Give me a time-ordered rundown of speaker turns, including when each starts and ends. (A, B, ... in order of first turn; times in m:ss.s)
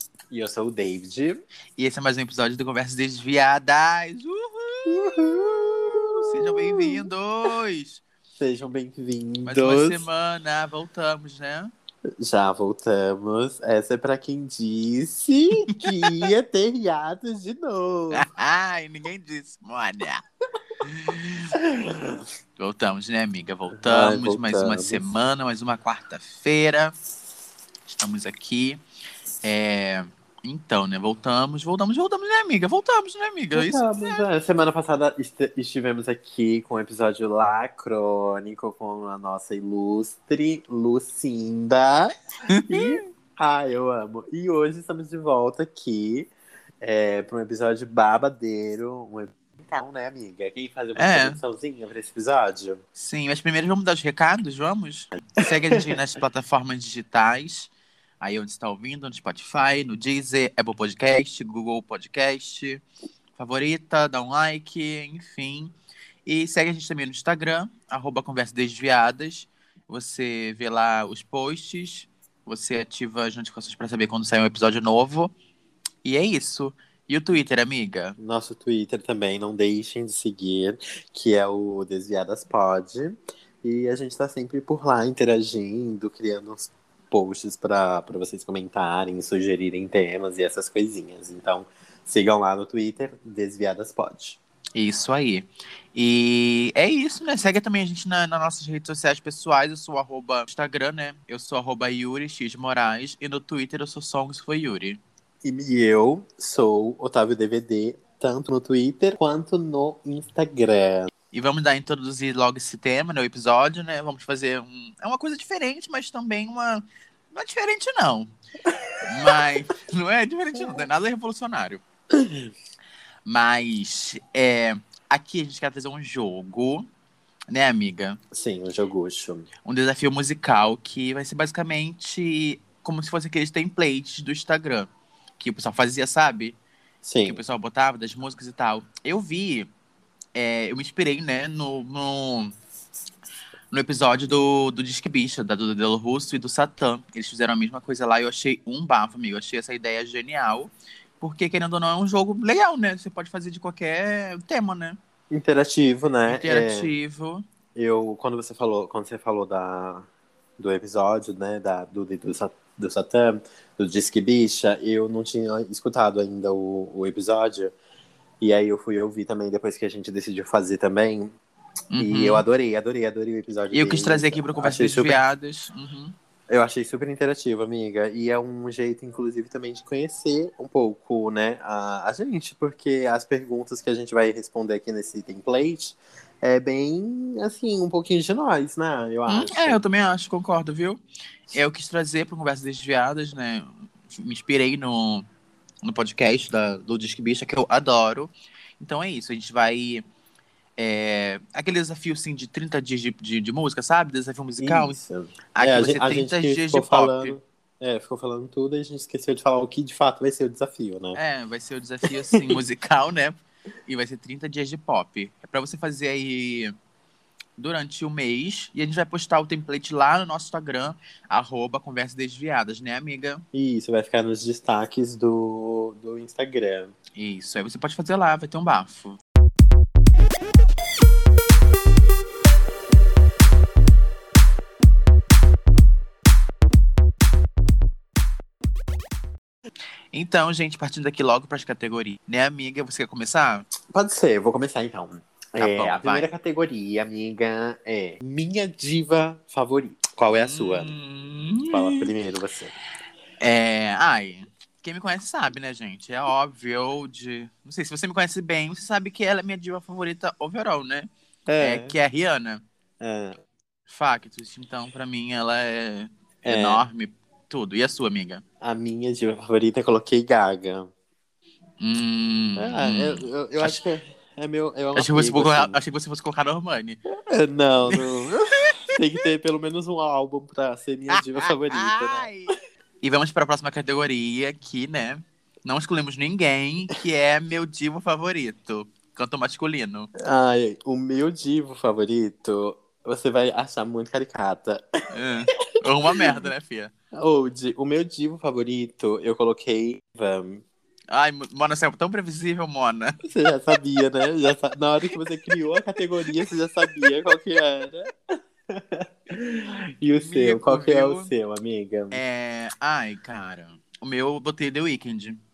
0:00.3-0:01.4 A
0:01.8-0:08.0 B
0:04.9-0:07.0 A
0:08.4-0:10.0 A
0:09.4-0:11.7 B
0:12.2-0:18.3 A
0:15.7-0:16.2 B
0:18.1-0:20.2 B
0:20.8-0:21.5 B
0:21.5-0:22.2 A
0:22.6-0:26.9 B
0:23.7-0:25.0 A
0:27.9-0:28.8 B
0:29.4-0:34.2 B
0:33.5-0:42.1 A
0:42.5-0:43.0 B
0:42.7-0:46.3 A
0:46.8-0:52.8 A
0:51.0-0:51.4 B
0:53.0-1:02.8 B
0:55.4-0:56.0 A
1:03.4-1:05.7 B
1:06.2-1:15.3 B
1:16.0-1:18.2 B
1:18.2-1:34.4 A
1:34.8-1:45.0 B
1:45.4-1:51.1 A
1:51.3-1:58.3 B
1:58.7-1:59.3 A
1:59.0-2:01.8 B
2:02.1-2:02.5 A
2:03.2-2:06.9 B
2:07.5-2:08.2 B
2:08.3-2:09.5 A
2:09.6-2:16.6 B
2:17.0-2:17.4 A
2:17.2-2:19.7 B
2:20.3-2:22.5 B
2:23.7-2:35.0 B
2:35.3-2:36.9 A
2:36.3-2:37.4 B
2:37.7-2:40.1 A
2:40.6-2:47.7 A
2:48.4-2:51.3 A
2:51.9-2:52.4 B
2:52.0-2:55.2 A
2:53.7-2:56.1 B
2:56.5-3:09.8 A
3:09.3-3:11.0 B
3:11.5-3:15.2 B
3:15.8-3:20.0 B
3:20.8-3:25.0 B
3:24.6-3:31.2 A
3:25.5-3:27.4 B
3:31.1-3:36.7 B
3:37.6-3:43.4 B
3:43.5-3:46.9 A
3:47.1-3:49.2 B
4:00.1-4:03.7 B
4:03.9-4:10.9 A
4:05.6-4:06.3 B
4:10.3-4:12.1 B
4:11.7-4:12.7 A
4:13.4-4:21.1 B
4:21.5-4:21.9 A
4:21.6-4:22.6 B
4:23.0-4:23.4 A
4:23.9-4:28.4 B
4:26.4-4:26.8 A
4:28.6-4:30.9 A
4:31.8-4:33.8 B
4:32.6-4:35.8 A
4:35.0-4:37.0 B
4:37.1-4:42.3 A
4:37.8-4:38.1 B
4:41.1-4:50.1 B
4:50.2-4:54.8 A
4:55.1-4:56.9 B
4:57.1-5:00.6 A
5:01.1-5:03.2 B
5:03.2-5:08.1 A
5:08.7-5:12.2 A
5:10.2-5:11.3 B
5:12.1-5:15.4 B